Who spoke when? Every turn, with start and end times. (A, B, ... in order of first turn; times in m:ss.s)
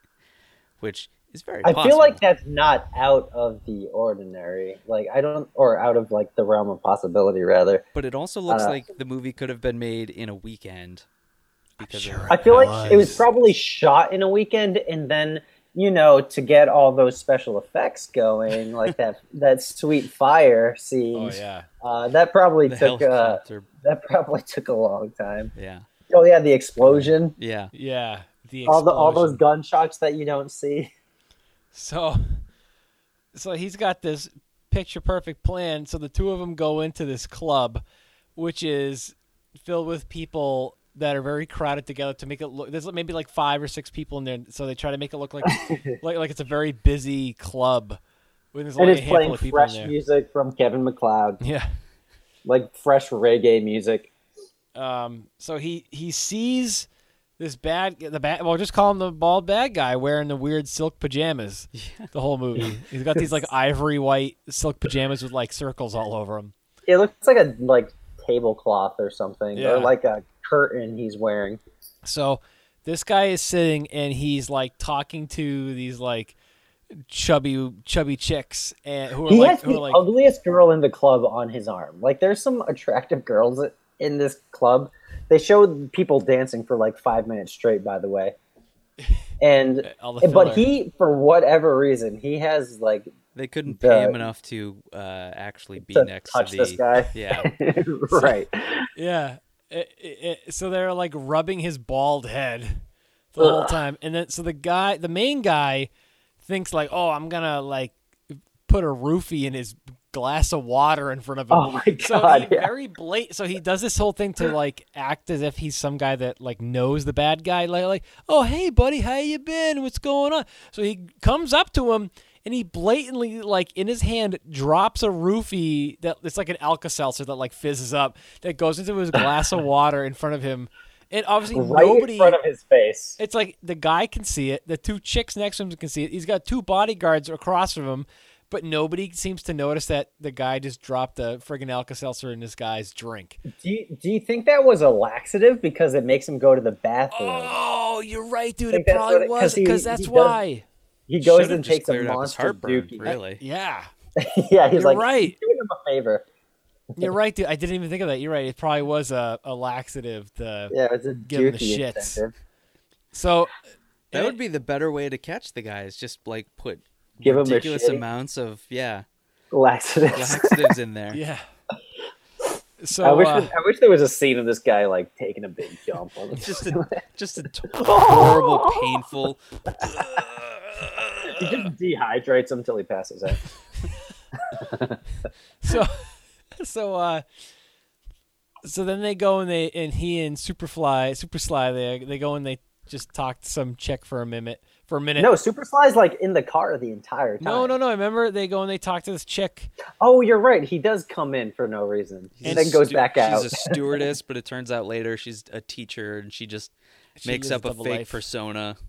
0:00.8-0:02.2 A
0:01.6-0:07.8 B
0:07.9-0:11.0 A
0:08.5-0:08.8 B
0:11.8-0:13.2 A
0:11.8-0:13.3 C
0:12.3-0:25.5 B
0:21.1-0:21.6 C
0:22.6-0:23.7 A
0:25.6-0:25.8 A
0:26.1-0:27.3 B
0:26.8-0:27.7 A
0:27.7-0:29.4 C
0:28.6-0:30.9 B
0:31.7-0:32.4 C
0:33.3-0:37.8 C
0:38.4-0:48.0 C
0:45.4-0:45.8 B
0:48.5-0:49.9 C
0:48.8-0:51.4 B
0:51.4-0:51.7 C
0:52.4-0:54.1 B
0:54.7-0:56.9 C
0:57.4-1:06.5 C
1:01.7-1:02.1 A
1:06.9-1:11.6 B
1:09.5-1:09.9 C
1:12.0-1:16.3 C
1:17.1-1:20.0 C
1:19.3-1:28.3 B
1:29.4-1:33.1 B
1:29.8-1:30.6 C
1:33.3-1:37.5 A
1:33.7-1:34.2 B
1:35.8-1:38.9 B
1:39.0-1:42.8 C
1:43.3-1:45.9 C
1:43.4-1:43.8 B
1:46.4-2:12.4 C
1:51.5-1:52.7 B
2:11.5-2:13.2 B
2:13.2-2:23.4 C
2:23.5-2:27.5 B
2:27.1-2:30.6 C
2:28.7-2:30.4 B
2:31.1-2:33.2 B
2:31.2-2:33.4 A
2:33.0-2:33.9 C
2:34.2-2:36.2 B
2:34.7-2:35.4 C
2:37.0-2:40.7 C
2:40.7-2:42.3 B
2:41.3-2:42.2 C
2:43.1-2:43.5 C
2:44.1-2:49.0 A
2:47.2-2:48.0 B
2:49.5-2:50.6 B
2:50.1-2:51.2 A
2:51.1-2:51.4 C
2:52.8-2:53.5 C
2:53.0-2:57.0 B
2:56.3-3:01.4 A
2:57.7-2:59.0 B
3:01.3-3:03.4 B
3:04.6-3:05.0 B
3:05.6-3:06.0 C
3:06.6-3:07.2 C
3:08.6-3:15.3 C
3:15.2-3:17.8 B
3:17.4-3:19.7 C
3:20.0-3:23.9 B
3:22.4-3:26.7 A
3:22.4-3:22.8 C
3:27.2-3:28.2 C
3:27.2-3:28.8 A